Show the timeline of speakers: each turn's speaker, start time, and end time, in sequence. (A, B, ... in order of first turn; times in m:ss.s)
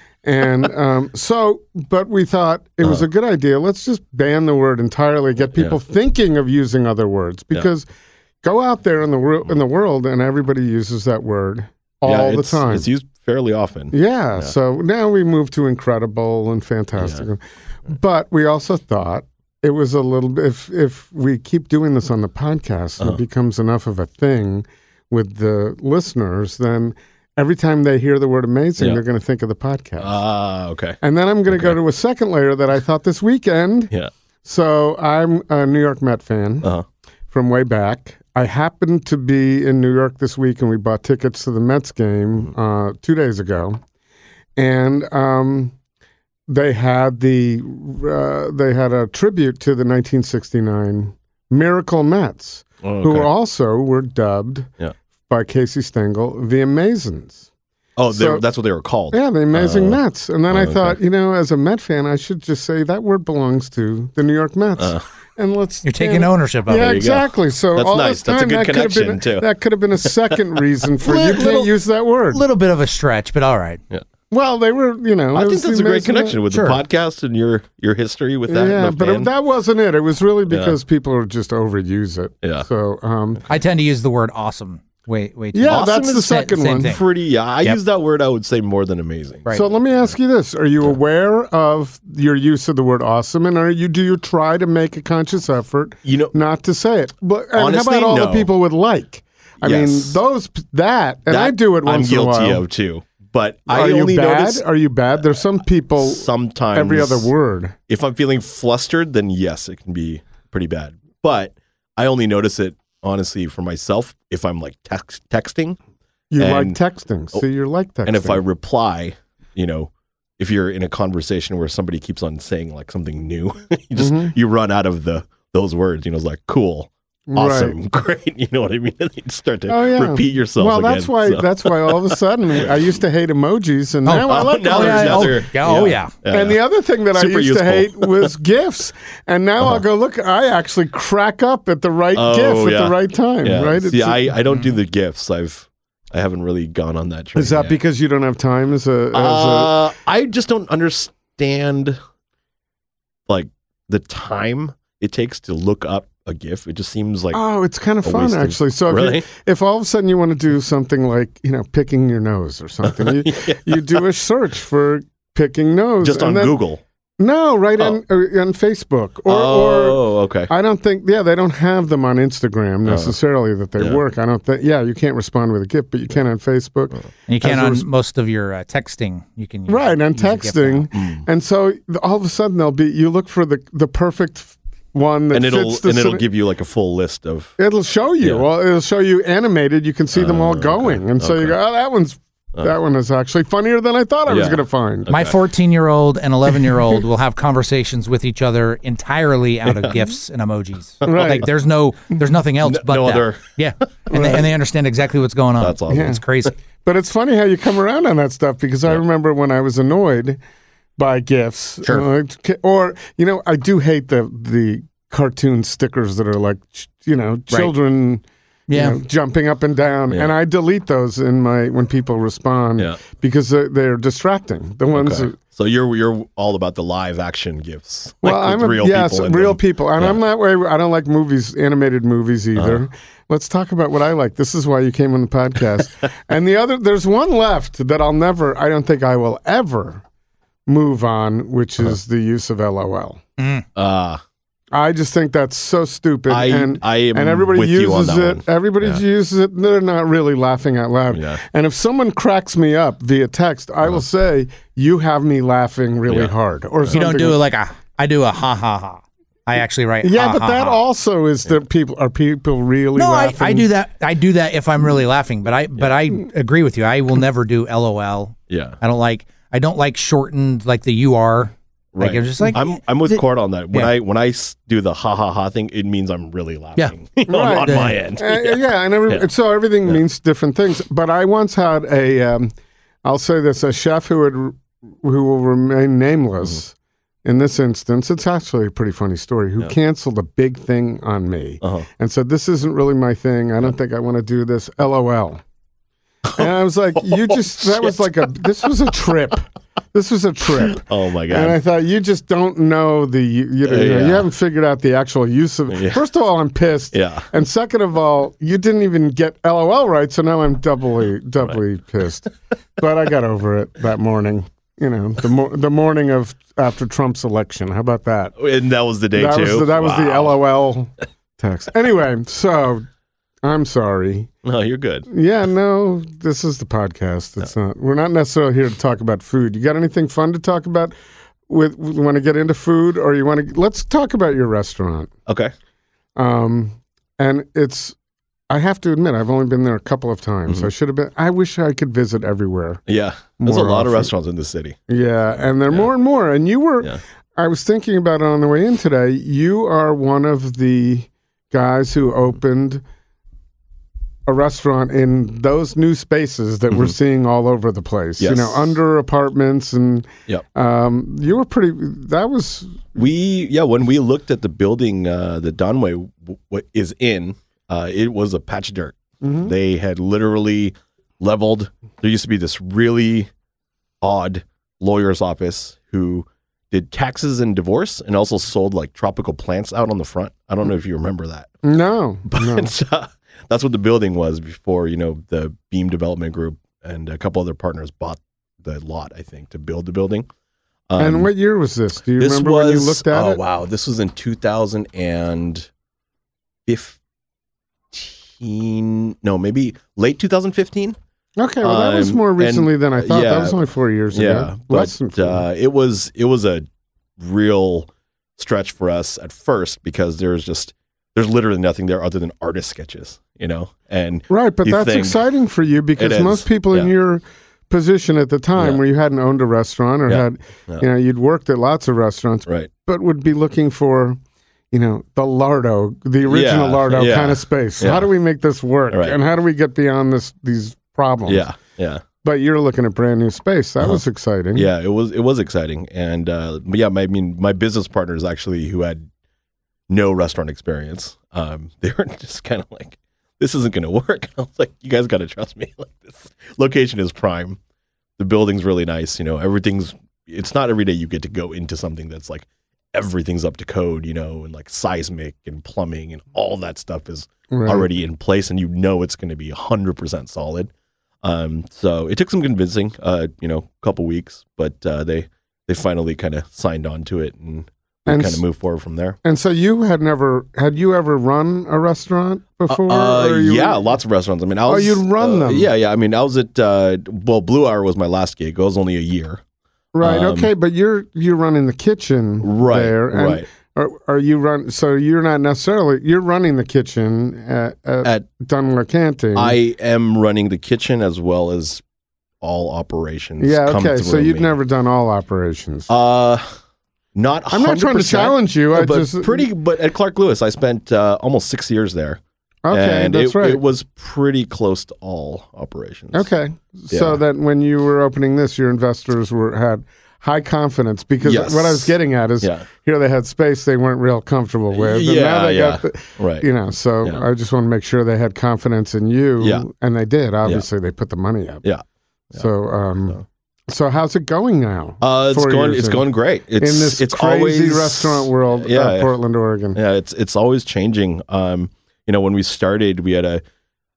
0:00.2-0:07.9 A
0:08.4-0:12.9 A
0:12.0-0:14.5 B
0:13.9-0:30.1 A
0:17.0-0:17.2 B
0:30.0-0:31.0 B
0:31.0-0:33.9 A
0:31.5-0:31.8 B
0:34.4-0:36.7 A
0:37.3-0:43.8 A
0:44.6-0:45.8 A
0:46.5-0:54.7 A
0:52.8-0:53.3 B
0:55.3-0:57.5 A
0:58.0-1:00.0 B
0:58.1-0:58.4 A
0:59.1-1:12.4 A
1:00.5-1:01.0 B
1:04.8-1:05.0 B
1:05.8-1:07.0 C
1:06.7-1:09.4 B
1:11.0-1:11.7 B
1:11.3-1:11.6 C
1:12.3-1:13.8 C
1:14.3-1:16.4 A
1:15.3-1:19.3 B
1:16.5-1:16.8 C
1:18.5-1:23.4 A
1:22.4-1:22.7 B
1:23.5-1:27.0 C
1:25.5-1:27.0 A
1:25.7-1:29.6 B
1:29.5-1:42.6 A
1:36.0-1:36.3 B
1:37.5-1:38.5 B
1:39.6-1:40.2 B
1:41.3-1:44.6 B
1:43.7-1:47.8 A
1:46.0-1:47.3 B
1:47.9-1:55.8 B
1:56.3-1:58.4 A
1:56.4-1:56.8 B
1:58.0-2:12.7 B
2:04.0-2:04.3 A
2:07.3-2:07.8 A
2:09.7-2:15.5 A
2:14.0-2:16.1 C
2:14.2-2:16.6 B
2:16.3-2:24.4 A
2:17.1-2:18.3 B
2:22.1-2:27.8 B
2:27.3-2:29.8 A
2:29.1-2:32.0 B
2:33.3-2:37.4 B
2:37.3-2:46.6 A
2:38.0-2:39.3 B
2:42.8-2:44.0 B
2:46.0-2:46.8 B
2:47.2-2:57.8 A
2:49.3-2:50.5 B
2:52.8-2:53.1 B
2:57.3-3:00.9 C
2:57.4-2:57.8 B
2:59.7-3:06.2 A
3:00.9-3:01.2 B
3:05.3-3:07.5 B
3:07.6-3:15.1 A
3:10.1-3:11.6 B
3:14.3-3:15.4 B
3:15.1-3:26.5 C
3:19.7-3:20.0 B
3:21.0-3:21.5 A
3:22.6-3:24.4 B
3:24.1-3:24.5 A
3:25.6-3:26.5 B
3:25.9-3:26.2 A
3:26.8-3:30.4 A
3:31.0-3:45.4 A
3:38.7-3:39.0 C
3:44.9-3:50.2 B
3:48.2-4:00.0 A
3:52.6-3:52.8 B
4:00.7-4:03.2 A
4:03.4-4:03.6 C
4:03.7-4:04.2 B
4:04.7-4:17.4 A
4:06.3-4:09.0 B
4:11.1-4:11.4 B
4:16.1-4:16.3 B
4:16.9-4:20.8 C
4:20.0-4:23.7 A
4:23.0-4:33.9 C
4:28.5-4:28.8 B
4:31.9-4:39.2 B
4:37.3-4:55.4 A
4:37.5-4:38.0 C
4:51.6-4:51.9 B
4:56.2-4:58.0 B
4:56.4-5:18.3 A
5:00.7-5:01.6 B
5:03.7-5:04.2 B
5:05.7-5:06.0 B
5:06.9-5:07.3 B
5:18.4-5:20.4 B
5:19.1-5:22.9 A
5:23.4-5:24.3 A
5:24.4-5:25.1 B
5:25.1-5:30.9 A
5:31.5-5:35.1 A
5:35.3-5:35.5 B
5:36.2-5:38.0 A
5:38.5-5:42.8 A
5:42.9-5:44.8 B
5:43.4-5:44.1 A
5:44.9-5:52.8 A
5:54.2-6:03.0 A
5:56.7-5:57.0 B
5:58.2-5:58.7 B
6:03.0-6:13.3 B
6:09.2-6:09.5 A
6:14.0-6:21.5 B
6:21.6-6:22.7 A
6:22.2-6:30.3 B
6:30.9-6:31.3 B
6:31.0-6:33.4 A
6:32.2-6:35.7 B
6:36.6-6:37.0 B
6:37.9-6:41.0 B
6:41.4-6:45.4 A
6:41.6-6:43.6 B
6:44.1-6:46.7 B
6:47.2-6:55.2 B
6:54.3-7:04.2 A
6:56.0-6:56.9 B
7:00.1-7:00.8 B
7:04.7-7:11.4 A
7:06.2-7:08.1 B
7:08.9-7:09.2 B
7:11.2-7:12.0 B
7:12.2-7:14.7 A
7:14.5-7:19.1 B
7:19.9-7:27.6 B
7:28.2-7:40.7 B
7:37.5-7:37.9 A
7:41.2-7:49.2 B
7:48.1-7:48.4 A
7:49.2-7:53.8 A
7:52.7-7:59.4 B
7:54.6-7:55.7 A
7:59.9-8:09.6 A
8:00.0-8:00.5 B
8:02.4-8:03.5 B
8:09.3-8:11.8 B
8:12.4-8:14.5 B
8:13.4-8:15.9 A
8:15.9-8:16.5 B
8:17.1-8:22.2 B
8:17.5-8:19.5 A
8:22.6-8:23.6 A
8:22.7-8:26.3 B
8:26.1-8:41.6 A
8:26.9-8:27.2 B
8:31.2-8:32.7 B
8:34.7-8:36.5 B
8:39.4-8:39.6 B
8:41.6-8:42.4 B
8:42.3-8:46.1 A
8:45.0-8:49.1 B
8:46.6-8:49.8 A
8:49.7-8:53.4 B